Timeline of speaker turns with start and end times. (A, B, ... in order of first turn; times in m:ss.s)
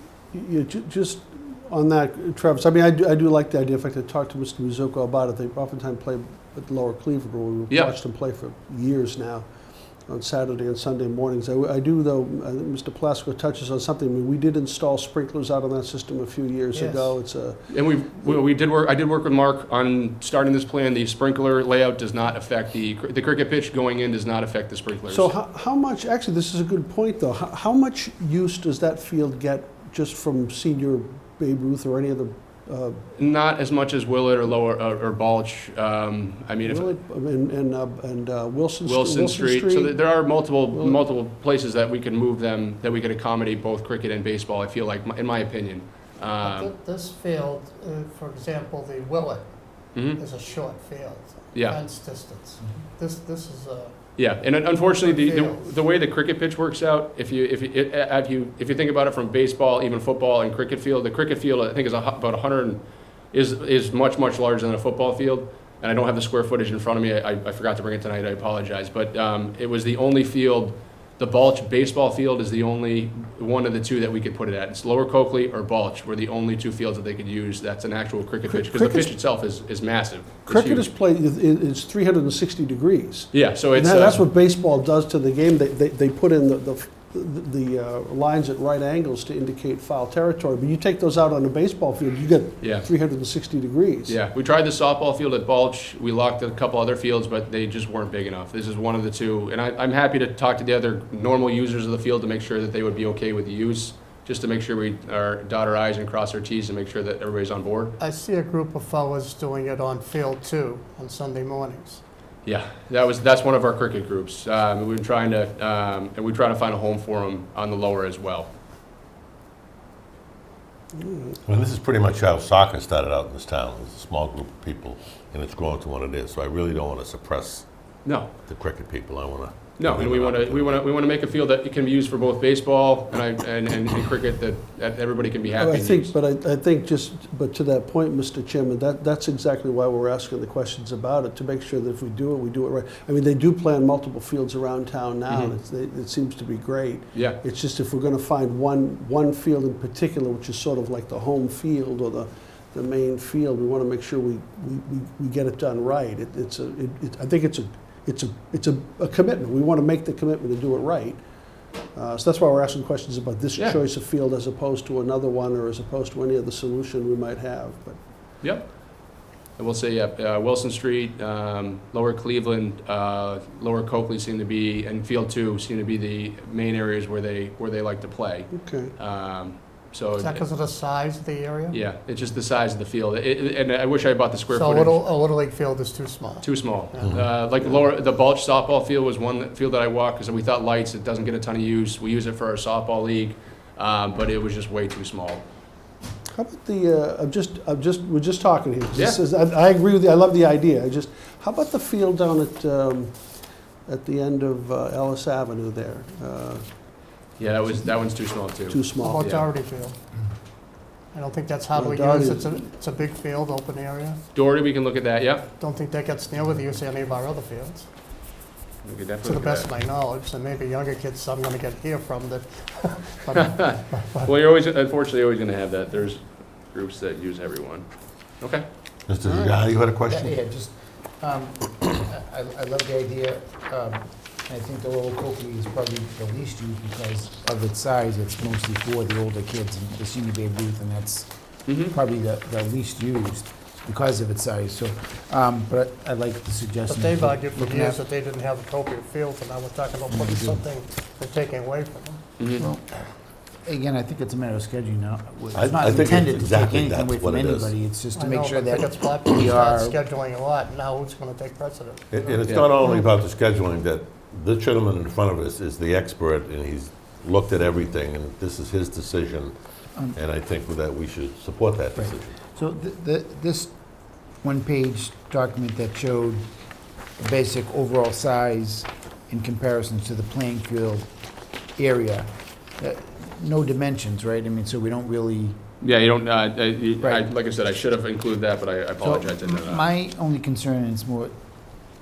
0:00.3-0:09.5 A
0:07.7-0:08.0 B
0:10.1-0:17.6 A
0:16.7-0:17.2 C
0:17.7-0:25.3 B
0:25.1-0:33.0 A
0:33.2-0:36.9 B
0:36.6-0:41.0 A
0:38.8-0:46.7 B
0:46.4-0:55.8 C
0:49.9-0:50.2 B
0:54.2-1:20.9 B
1:18.5-1:19.1 A
1:20.5-1:34.2 A
1:23.3-1:24.2 B
1:32.6-1:32.9 B
1:34.1-1:47.9 B
1:48.0-1:52.0 C
1:52.4-1:58.5 B
2:01.0-2:01.3 A
2:01.5-2:07.6 D
2:08.0-2:08.3 B
2:08.5-2:10.7 D
2:09.8-2:16.1 B
2:10.4-2:10.8 A
2:15.5-2:41.2 A
2:25.3-2:25.5 B
2:41.9-2:48.0 A
2:48.4-3:00.4 B
2:58.5-2:58.9 A
3:00.2-3:01.8 C
3:01.7-3:05.0 B
3:04.5-3:07.2 C
3:06.4-3:15.4 B
3:16.3-3:23.2 A
3:23.9-3:27.2 A
3:27.4-3:29.5 B
3:28.5-3:29.2 A
3:29.0-3:30.0 C
3:31.1-3:34.2 C
3:31.7-3:32.6 A
3:34.3-3:35.5 B
3:35.6-3:37.9 C
3:38.8-3:39.7 B
3:39.2-3:44.3 C
3:43.4-3:48.7 B
3:49.1-3:49.6 A
3:49.2-3:50.2 D
3:50.1-4:08.0 E
4:01.7-4:02.0 B
4:06.9-4:12.6 C
4:10.1-4:10.6 E
4:12.4-4:12.6 B
4:12.6-4:13.0 E
4:13.6-4:20.0 E
4:15.6-4:17.7 D
4:18.2-4:23.1 C
4:22.1-4:29.6 D
4:22.4-4:22.7 B
4:22.6-4:23.0 A
4:30.2-4:32.3 D
4:32.0-4:33.7 E
4:34.4-4:36.5 E
4:37.2-4:41.1 E
4:41.8-4:45.6 E
4:45.8-4:49.9 B
4:47.0-4:47.3 E
4:49.0-4:51.3 E